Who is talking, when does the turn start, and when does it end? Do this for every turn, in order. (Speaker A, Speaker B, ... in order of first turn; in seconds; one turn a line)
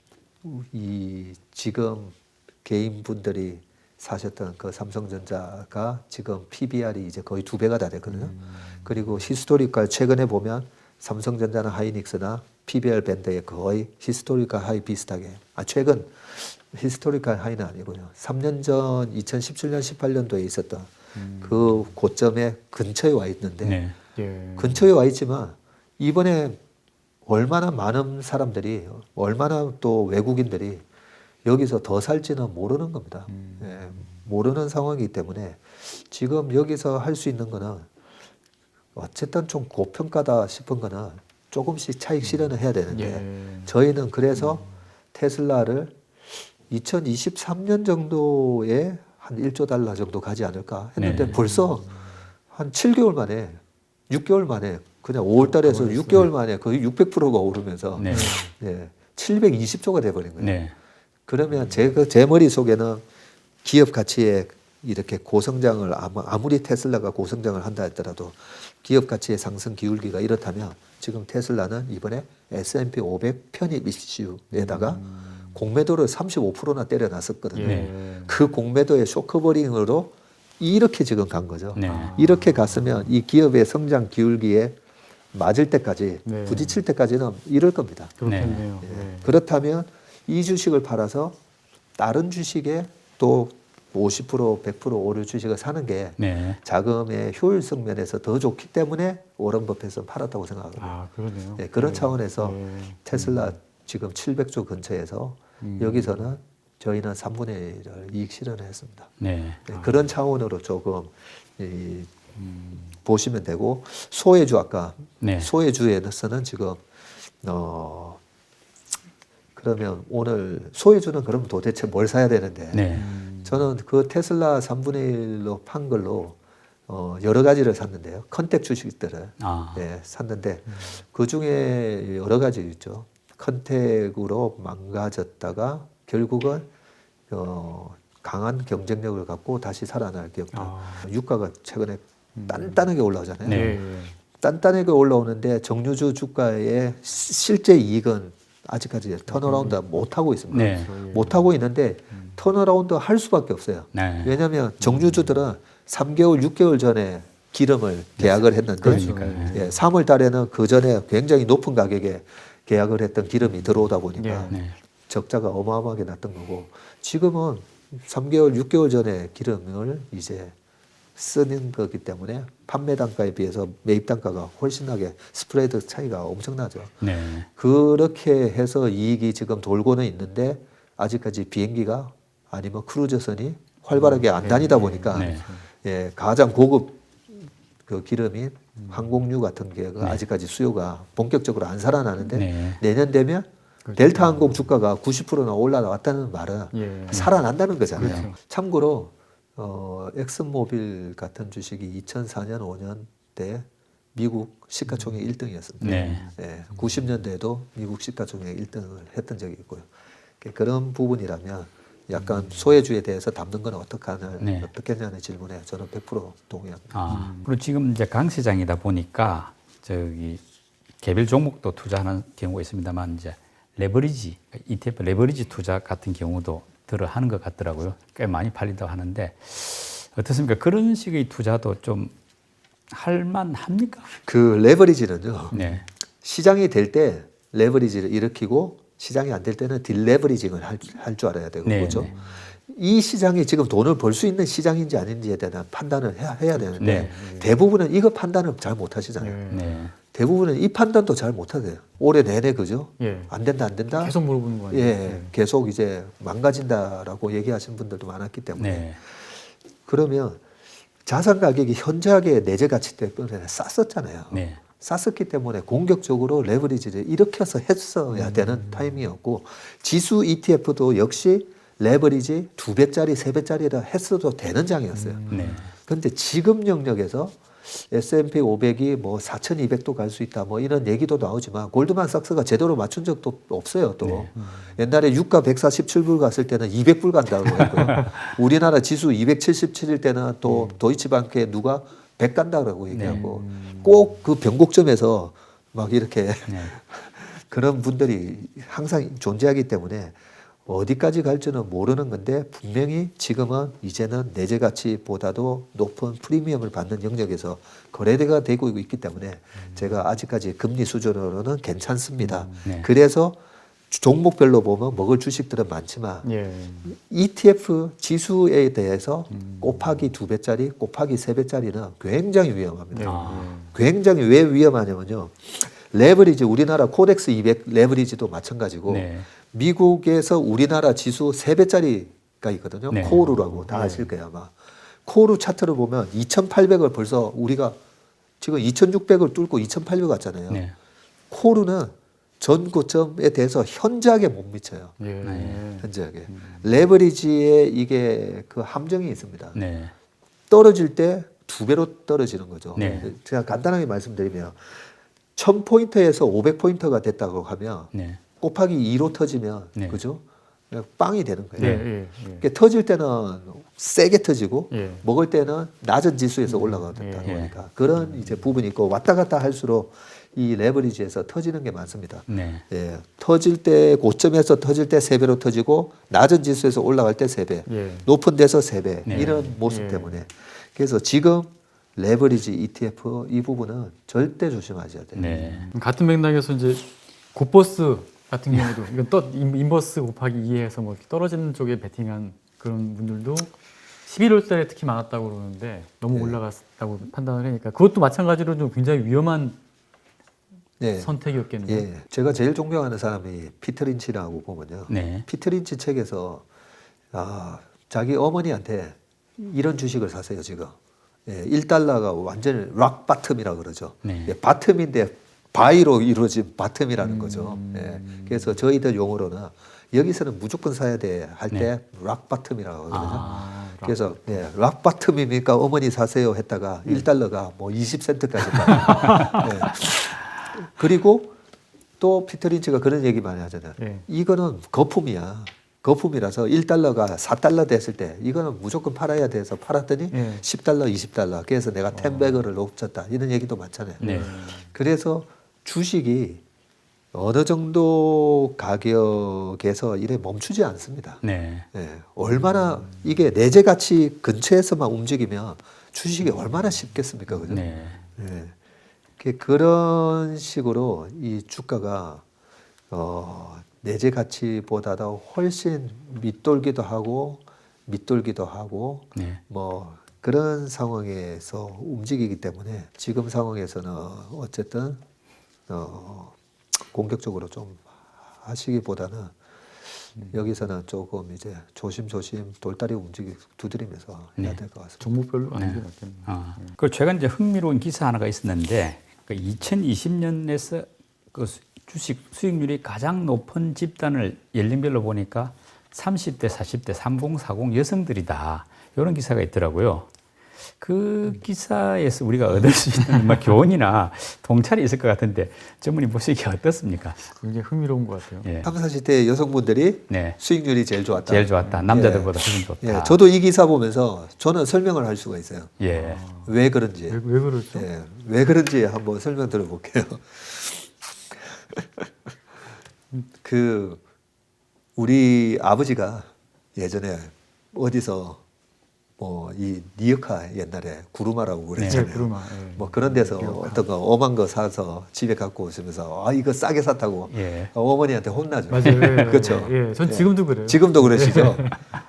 Speaker A: 0.4-8.3
Speaker B: 8.1-9.2
Speaker A: 8.8-23.8
Speaker B: 21.1-21.9
Speaker C: 23.6-23.9
Speaker B: 24.1-24.9
Speaker A: 24.6-26.6
Speaker A: 27.2-30.8
Speaker A: 31.4-37.9
Speaker B: 33.3-34.2
Speaker A: 38.9-51.9
Speaker B: 42.9-43.7
Speaker B: 44.3-44.6
Speaker C: 51.0-51.3
Speaker B: 51.1-51.9
Speaker A: 52.5-60.6
Speaker B: 55.4-56.3
Speaker C: 58.0-58.4
Speaker B: 58.1-58.5
Speaker C: 60.4-60.7
Speaker A: 61.3-63.0
Speaker A: 63.6-75.0
Speaker B: 74.5-75.6
Speaker A: 75.5-84.8
Speaker B: 77.5-78.4
Speaker C: 77.6-77.9
Speaker C: 81.7-82.1
Speaker B: 81.8-83.0
Speaker A: 85.3-88.2
Speaker B: 86.2-86.8
Speaker B: 88.2-89.3
Speaker C: 88.2-88.6
Speaker A: 88.8-91.4
Speaker A: 92.0-101.0
Speaker C: 96.2-96.6
Speaker B: 100.8-103.5
Speaker A: 101.6-109.1
Speaker B: 105.6-106.2
Speaker C: 109.2-109.6
Speaker A: 109.7-112.1
Speaker B: 109.7-110.0
Speaker B: 112.4-112.9
Speaker A: 113.0-116.8
Speaker C: 115.2-115.5
Speaker A: 117.4-118.2
Speaker A: 119.5-122.9
Speaker C: 122.7-123.1
Speaker B: 122.9-123.7
Speaker A: 123.4-136.7
Speaker C: 129.4-129.8
Speaker A: 137.3-143.7
Speaker B: 140.5-141.1
Speaker B: 142.3-142.9
Speaker B: 143.4-144.2
Speaker C: 143.4-143.8
Speaker A: 144.4-164.6
Speaker B: 149.3-149.8
Speaker C: 150.5-150.9
Speaker B: 150.6-151.4
Speaker B: 152.1-152.4
Speaker C: 153.9-154.3
Speaker B: 154.8-155.3
Speaker C: 158.2-159.6
Speaker B: 158.8-159.8
Speaker B: 164.2-164.6
Speaker C: 164.5-164.7
Speaker A: 165.1-170.5
Speaker A: 171.2-177.0
Speaker C: 177.0-177.5
Speaker A: 177.6-209.9
Speaker B: 183.9-185.6
Speaker C: 185.1-185.4
Speaker B: 188.8-189.1
Speaker C: 192.3-192.8
Speaker B: 193.8-194.6
Speaker B: 196.7-197.3
Speaker B: 197.9-198.3
Speaker C: 198.0-198.3
Speaker C: 205.8-206.2
Speaker B: 205.8-206.8
Speaker A: 210.4-217.2
Speaker B: 212.2-212.6
Speaker C: 214.4-214.7
Speaker C: 216.9-220.4
Speaker B: 217.1-217.5
Speaker C: 221.0-232.1
Speaker C: 232.9-234.1
Speaker A: 234.2-235.5
Speaker B: 235.5-235.8
Speaker C: 235.5-235.8
Speaker A: 236.2-242.1
Speaker C: 241.6-242.1
Speaker B: 241.8-242.4
Speaker A: 242.7-249.4
Speaker B: 246.6-247.5
Speaker C: 246.8-247.1
Speaker B: 249.2-249.7
Speaker C: 249.5-249.9
Speaker A: 250.1-254.2
Speaker B: 253.0-253.3
Speaker B: 253.9-255.3
Speaker A: 254.7-260.4
Speaker C: 258.6-259.0
Speaker A: 261.0-275.2
Speaker C: 264.3-264.6
Speaker B: 268.1-269.1
Speaker B: 274.9-275.6
Speaker C: 275.3-275.7
Speaker A: 275.8-313.4
Speaker C: 284.0-284.3
Speaker B: 284.3-284.8
Speaker C: 287.9-288.2
Speaker B: 290.4-290.8
Speaker C: 292.9-293.2
Speaker B: 293.0-294.1
Speaker C: 296.5-296.7
Speaker B: 309.6-309.9
Speaker B: 312.2-312.6
Speaker C: 312.6-312.9
Speaker A: 313.9-316.2
Speaker B: 316.2-316.9
Speaker A: 316.9-334.5
Speaker B: 319.3-320.1
Speaker B: 322.9-323.7
Speaker C: 323.0-323.5
Speaker C: 328.9-329.3
Speaker C: 332.9-333.3
Speaker B: 333.1-334.1
Speaker A: 335.1-337.8
Speaker A: 338.4-340.6
Speaker C: 340.5-340.7
Speaker A: 341.3-344.9
Speaker B: 345.0-346.7
Speaker C: 345.2-345.6
Speaker A: 345.8-349.6
Speaker C: 349.5-349.9
Speaker A: 350.5-385.3
Speaker C: 352.7-353.1
Speaker B: 352.8-353.1
Speaker C: 357.9-358.2
Speaker B: 361.6-362.4
Speaker C: 361.6-361.9
Speaker B: 364.7-365.0
Speaker B: 366.5-367.5
Speaker C: 367.2-367.5
Speaker C: 372.3-372.6
Speaker B: 377.7-378.1
Speaker C: 379.1-379.4
Speaker B: 379.1-380.2
Speaker C: 385.1-385.7
Speaker B: 385.2-393.5
Speaker B: 394.1-399.6
Speaker A: 396.1-396.4
Speaker A: 400.8-401.1
Speaker B: 401.0-401.9
Speaker A: 401.6-406.4
Speaker C: 404.9-405.2
Speaker A: 407.1-431.4
Speaker C: 414.0-414.3
Speaker B: 417.0-418.6
Speaker C: 422.9-423.4
Speaker B: 423.0-424.4
Speaker B: 428.7-429.5
Speaker C: 429.0-429.4
Speaker A: 432.0-446.4
Speaker B: 433.8-434.0
Speaker B: 440.1-440.4
Speaker B: 441.9-442.4
Speaker B: 444.0-444.7
Speaker C: 444.0-444.3
Speaker A: 447.1-451.2
Speaker C: 451.2-451.7
Speaker A: 451.7-458.5
Speaker B: 452.3-453.0
Speaker B: 457.4-458.0
Speaker C: 457.5-458.0
Speaker A: 459.2-462.2
Speaker A: 462.9-475.0
Speaker C: 469.1-469.4
Speaker A: 475.7-479.3
Speaker B: 480.1-480.4
Speaker A: 480.3-485.0
Speaker B: 485.0-486.8
Speaker C: 485.5-500.1
Speaker C: 500.8-507.3
Speaker B: 507.3-508.5
Speaker C: 508.4-508.7
Speaker A: 508.6-515.8
Speaker C: 510.1-510.4
Speaker C: 511.2-513.2
Speaker B: 511.6-511.9
Speaker C: 515.8-516.2
Speaker B: 515.9-516.5
Speaker A: 516.5-517.2
Speaker B: 517.1-517.9
Speaker A: 517.7-522.1
Speaker A: 523.4-524.0
Speaker A: 525.0-528.4
Speaker A: 529.2-541.7
Speaker C: 531.8-532.1
Speaker B: 531.9-533.9
Speaker C: 537.3-537.7
Speaker B: 538.7-541.8
Speaker C: 538.8-539.1